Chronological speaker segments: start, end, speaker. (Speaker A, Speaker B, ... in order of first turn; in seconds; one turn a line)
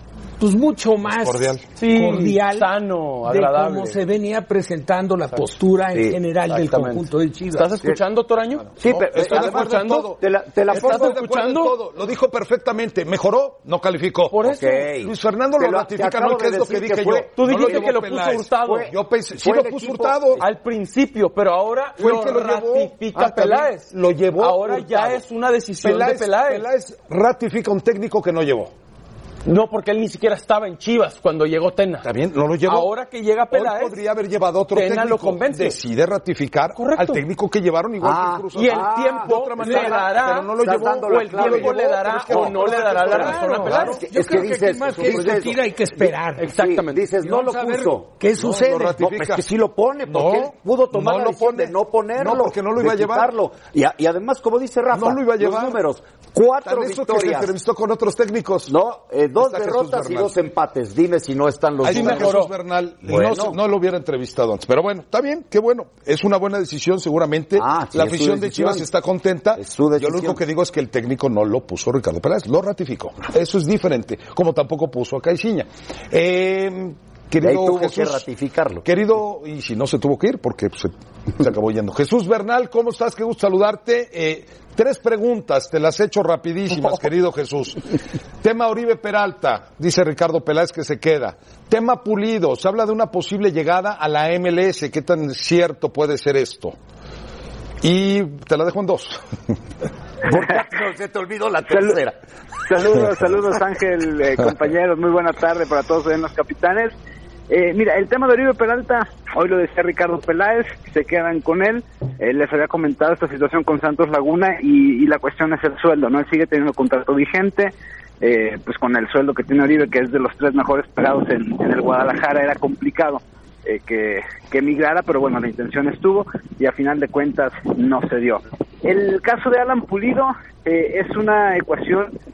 Speaker A: 0.4-7.7
Speaker B: 1.1-1.6
Speaker C: 1.8-4.0
Speaker C: 6.5-10.2
Speaker D: 8.8-11.2
Speaker B: 8.8-14.4
Speaker C: 10.7-11.8
Speaker C: 14.3-14.9
Speaker D: 14.4-18.0
Speaker B: 14.9-20.4
Speaker C: 17.4-18.9
Speaker D: 18.6-20.4
Speaker C: 20.4-26.7
Speaker B: 22.0-25.2
Speaker B: 25.8-28.7
Speaker C: 29.4-32.1
Speaker B: 32.0-32.9
Speaker C: 32.6-34.0
Speaker B: 33.5-44.0
Speaker C: 34.7-35.8
Speaker C: 36.8-37.2
Speaker D: 38.0-48.1
Speaker C: 38.5-44.0
Speaker A: 43.1-46.5
Speaker C: 46.4-47.1
Speaker A: 47.2-49.0
Speaker B: 48.4-49.5
Speaker D: 48.9-57.5
Speaker B: 50.1-53.3
Speaker B: 54.9-55.8
Speaker B: 56.6-58.7
Speaker D: 58.7-62.4
Speaker B: 59.4-60.3
Speaker B: 61.8-78.2
Speaker C: 61.8-62.5
Speaker D: 63.0-63.6
Speaker D: 67.6-68.9
Speaker D: 69.6-70.4
Speaker D: 77.4-78.8
Speaker B: 78.8-87.8
Speaker B: 88.4-96.8
Speaker B: 97.8-99.2
Speaker D: 100.2-102.2
Speaker E: 101.7-102.0
Speaker E: 102.7-106.9
Speaker E: 107.5-132.1